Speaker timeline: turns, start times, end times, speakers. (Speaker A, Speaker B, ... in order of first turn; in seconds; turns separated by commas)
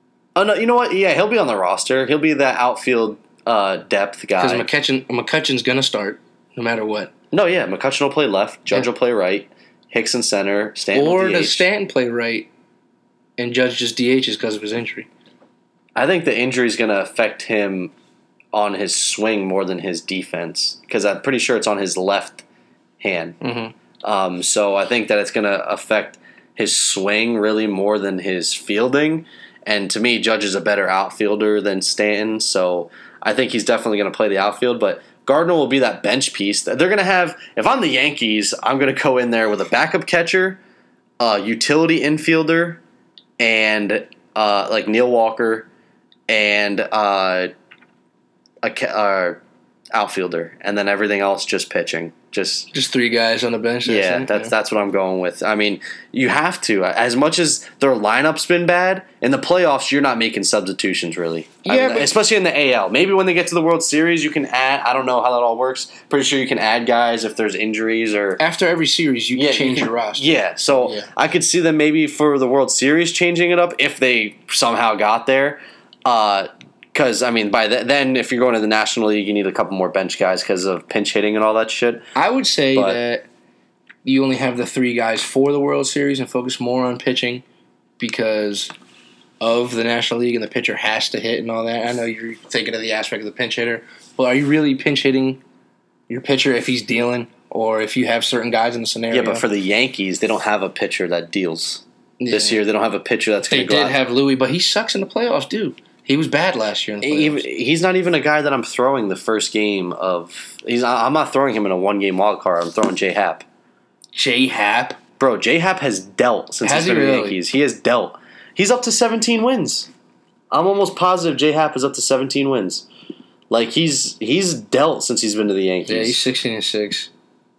Speaker A: 0.3-4.7, Speaker B: 4.4-7.1, Speaker A: 7.3-11.7, Speaker B: 10.9-12.5, Speaker B: 13.4-15.1, Speaker A: 16.0-17.9, Speaker A: 18.5-22.4, Speaker A: 23.0-23.4, Speaker B: 23.4-23.7, Speaker A: 24.0-40.6, Speaker A: 41.2-42.8, Speaker A: 43.4-45.7, Speaker A: 46.3-47.5, Speaker A: 48.6-49.4, Speaker A: 49.9-52.7, Speaker B: 52.7-54.5, Speaker A: 53.8-68.4, Speaker B: 61.6-62.1, Speaker B: 68.4-71.1, Speaker A: 69.3-82.0, Speaker B: 82.2-83.2, Speaker B: 84.0-87.4, Speaker B: 88.0-88.7, Speaker B: 89.4-95.4, Speaker B: 96.1-99.5, Speaker A: 99.1-104.0, Speaker B: 102.2-102.6, Speaker B: 103.5-107.5, Speaker A: 107.0-113.5, Speaker B: 114.2-115.0, Speaker A: 115.2-119.9, Speaker B: 116.6-117.4, Speaker A: 120.5-122.9, Speaker A: 123.5-126.2, Speaker B: 125.9-127.1